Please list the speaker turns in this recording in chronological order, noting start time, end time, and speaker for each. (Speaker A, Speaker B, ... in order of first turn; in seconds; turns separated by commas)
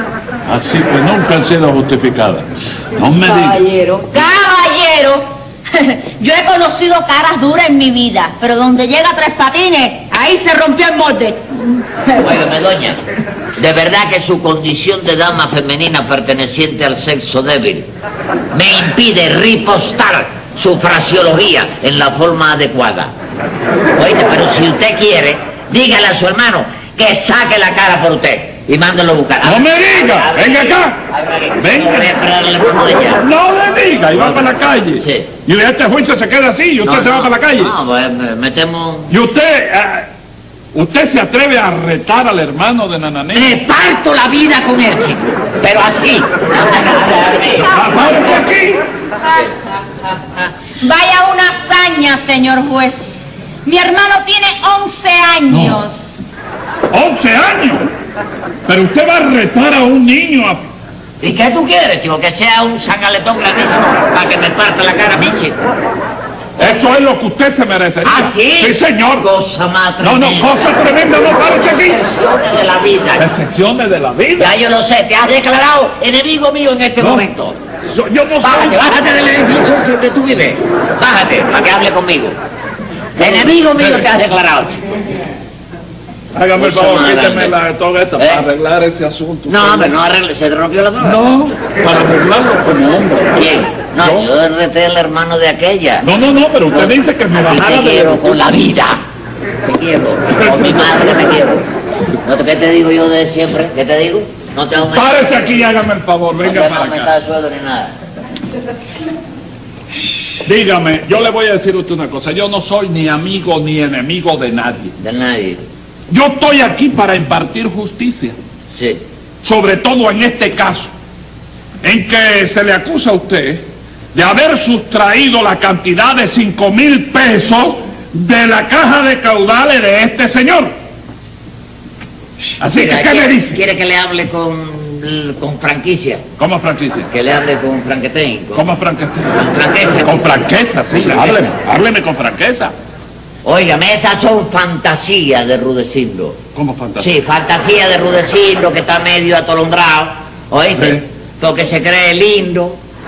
Speaker A: 0.5-3.6, Speaker B: 3.2-11.8, Speaker C: 12.2-13.0, Speaker C: 13.6-17.9, Speaker C: 18.5-23.1, Speaker C: 24.0-33.2, Speaker A: 29.4-31.0, Speaker A: 31.6-32.1, Speaker A: 33.2-37.7, Speaker C: 35.0-35.3, Speaker C: 36.8-39.1, Speaker A: 39.1-40.1, Speaker A: 40.7-43.6, Speaker C: 43.3-48.0, Speaker A: 47.6-48.8, Speaker B: 50.8-53.0, Speaker B: 53.6-56.1, Speaker A: 55.5-55.8, Speaker A: 56.9-57.9, Speaker A: 58.7-60.7, Speaker C: 61.2-65.6, Speaker A: 66.6-69.3, Speaker C: 68.0-70.7, Speaker A: 70.0-72.0, Speaker C: 71.3-73.3, Speaker A: 73.2-74.5, Speaker C: 74.4-77.6, Speaker A: 77.0-77.2, Speaker A: 77.9-79.0, Speaker C: 78.4-82.4, Speaker C: 83.2-84.8, Speaker A: 83.2-84.0, Speaker A: 86.3-89.9, Speaker C: 86.6-87.5, Speaker C: 88.2-88.4, Speaker C: 89.5-91.2, Speaker A: 91.0-93.4, Speaker C: 93.3-96.0, Speaker A: 94.0-94.3, Speaker A: 96.0-98.4, Speaker C: 96.7-99.0, Speaker C: 99.7-101.7, Speaker A: 100.3-100.9, Speaker C: 102.2-105.5, Speaker A: 104.9-107.1, Speaker C: 106.4-108.0, Speaker A: 110.5-114.9, Speaker C: 115.0-115.6, Speaker A: 116.1-118.3, Speaker C: 118.8-119.0, Speaker A: 119.4-120.9, Speaker A: 121.8-130.7, Speaker A: 132.6-133.6, Speaker C: 132.7-136.2, Speaker A: 136.4-137.1, Speaker C: 137.1-138.7, Speaker A: 138.6-139.4, Speaker C: 139.3-140.4, Speaker A: 140.0-142.7, Speaker C: 141.0-141.4, Speaker C: 143.4-146.4, Speaker A: 146.6-147.1, Speaker C: 147.0-152.8, Speaker A: 150.8-151.0